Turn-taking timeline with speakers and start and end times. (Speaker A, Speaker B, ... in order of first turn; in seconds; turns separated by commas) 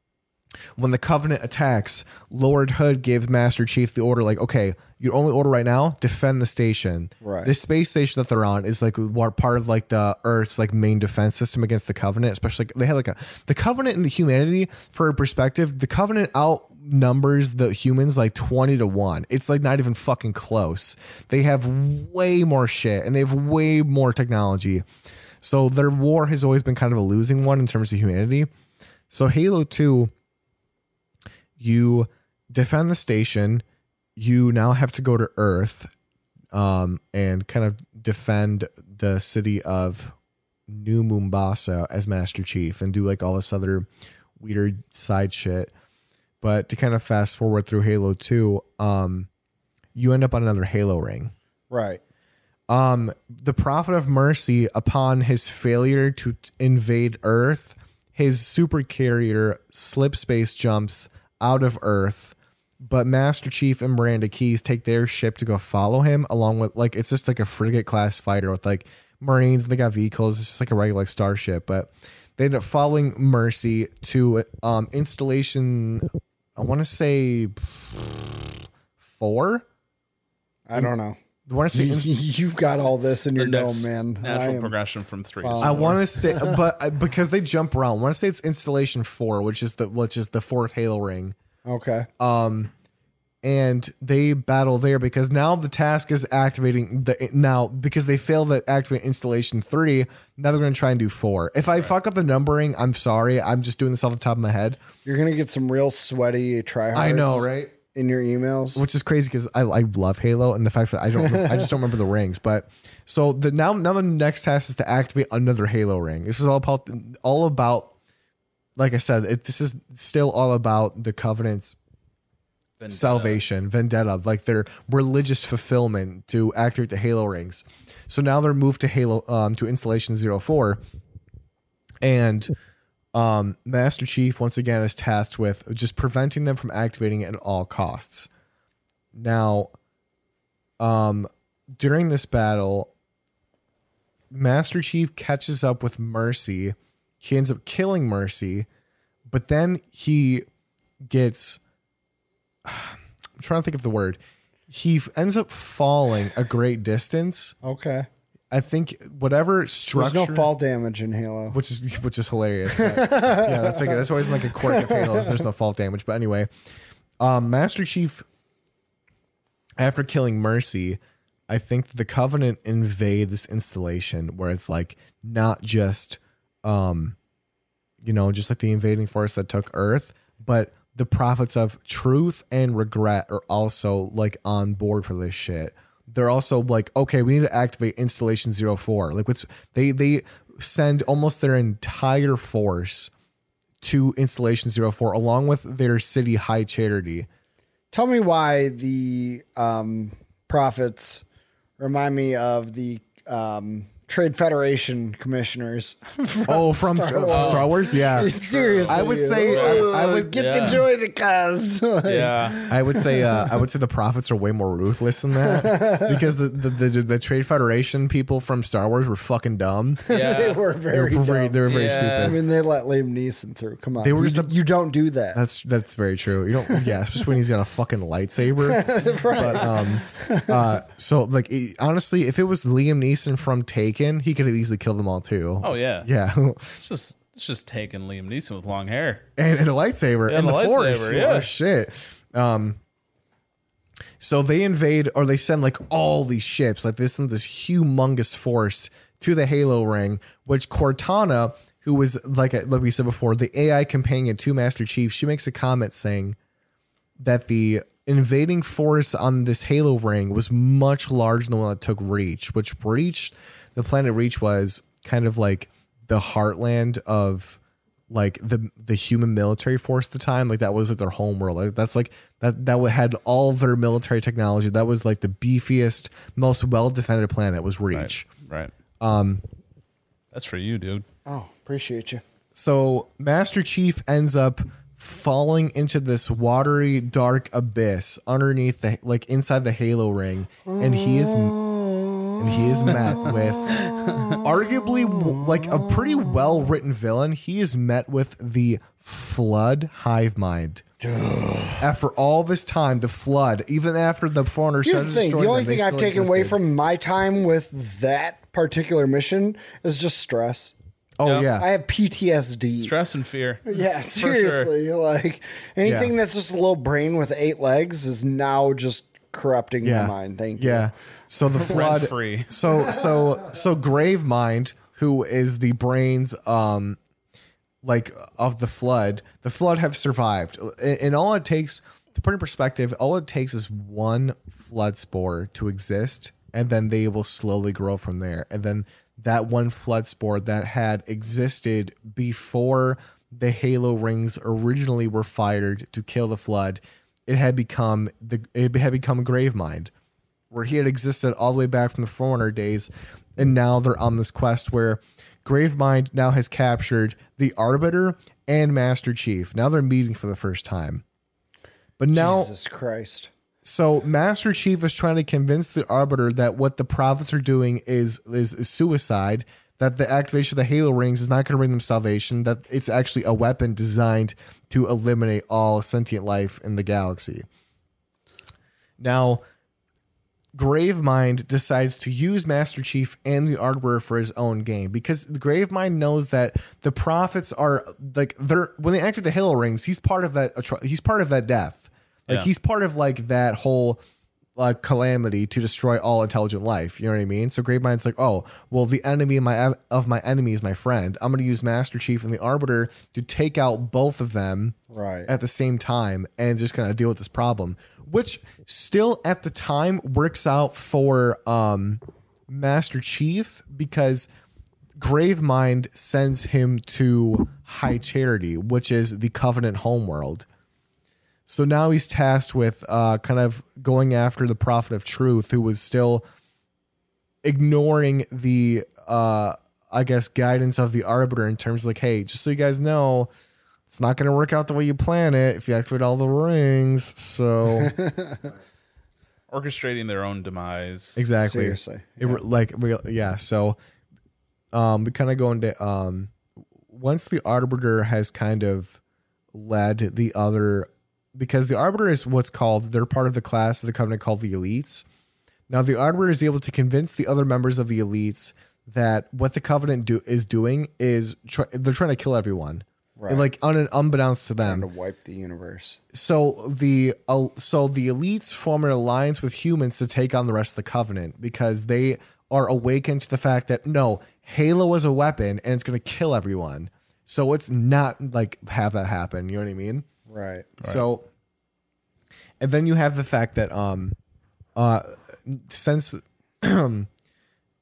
Speaker A: 0.8-24.8, Speaker B: 7.2-7.5, Speaker A: 25.4-28.5, Speaker A: 29.1-30.1, Speaker A: 31.6-33.6, Speaker A: 34.1-35.9, Speaker A: 36.5-40.1, Speaker A: 40.7-43.9, Speaker A: 44.4-45.7, Speaker A: 46.4-49.3, Speaker A: 49.9-51.3, Speaker B: 51.7-52.0, Speaker A: 52.7-79.6, Speaker B: 80.7-81.2, Speaker A: 81.5-82.1, Speaker B: 81.7-84.7, Speaker C: 83.4-86.0, Speaker B: 85.4-86.6, Speaker A: 85.6-91.3, Speaker B: 91.7-92.1, Speaker A: 92.2-92.7, Speaker A: 93.4-104.8, Speaker B: 105.0-108.8, Speaker A: 106.9-107.7, Speaker A: 108.7-117.9, Speaker B: 111.2-111.7, Speaker A: 118.8-121.8, Speaker C: 122.8-123.4, Speaker A: 122.9-130.8, Speaker A: 132.0-132.5, Speaker A: 133.1-138.3, Speaker A: 139.1-139.7, Speaker A: 140.8-142.9, Speaker A: 144.3-148.7, Speaker A: 149.3-150.4, Speaker A: 151.0-151.6, Speaker A: 152.6-157.6, Speaker B: 157.6-158.1, Speaker A: 158.5-160.5, Speaker B: 159.9-161.6, Speaker A: 161.5-166.5, Speaker B: 162.7-165.4, Speaker A: 167.2-168.2, Speaker A: 169.8-177.2, Speaker A: 178.0-193.1, Speaker A: 193.8-197.3, Speaker B: 197.9-201.2, Speaker B: 201.8-213.6, Speaker A: 206.5-208.3, Speaker C: 207.3-207.7, Speaker C: 208.3-210.8, Speaker A: 208.8-210.8, Speaker C: 212.0-212.6, Speaker A: 212.7-220.1, Speaker B: 215.4-216.2, Speaker B: 220.1-225.4, Speaker C: 220.1-220.6, Speaker A: 220.9-222.4, Speaker C: 221.7-222.4, Speaker A: 224.0-224.6, Speaker A: 225.3-236.8, Speaker B: 228.6-230.7, Speaker C: 235.6-236.1, Speaker C: 236.8-239.2, Speaker A: 239.4-242.8, Speaker C: 240.3-241.5, Speaker A: 244.2-256.4, Speaker A: 257.2-267.6, Speaker A: 268.1-278.3, Speaker C: 277.9-278.7, Speaker A: 279.0-279.4, Speaker C: 280.3-281.1, Speaker B: 281.2-282.2, Speaker A: 282.5-291.5, Speaker B: 290.7-296.1, Speaker A: 292.4-300.8, Speaker C: 293.9-294.4, Speaker B: 301.0-301.9, Speaker A: 301.8-306.6, Speaker B: 304.8-310.7, Speaker A: 311.2-311.7, Speaker C: 311.2-311.5, Speaker B: 311.6-312.9, Speaker C: 312.8-314.7, Speaker B: 313.6-320.9, Speaker A: 315.8-316.1, Speaker A: 319.8-327.0, Speaker C: 321.6-322.5, Speaker A: 327.8-349.9, Speaker A: 350.5-361.0, Speaker A: 362.0-362.5, Speaker B: 362.1-363.3, Speaker A: 363.6-377.4, Speaker A: 379.0-379.4, Speaker A: 380.5-394.0, Speaker A: 394.6-414.3, Speaker B: 404.9-405.3, Speaker A: 415.0-420.4, Speaker A: 421.5-426.2, Speaker A: 427.4-433.3, Speaker A: 433.9-437.9, Speaker B: 437.8-438.5, Speaker C: 439.5-441.2, Speaker A: 441.1-443.8, Speaker B: 441.4-442.4, Speaker A: 444.7-446.3, Speaker A: 446.9-449.0, Speaker A: 449.5-455.1, Speaker A: 455.7-464.9, Speaker B: 463.2-463.4, Speaker B: 464.6-466.0, Speaker A: 466.1-480.1, Speaker B: 480.3-480.8, Speaker A: 480.8-481.3, Speaker A: 482.6-484.1, Speaker A: 484.8-487.1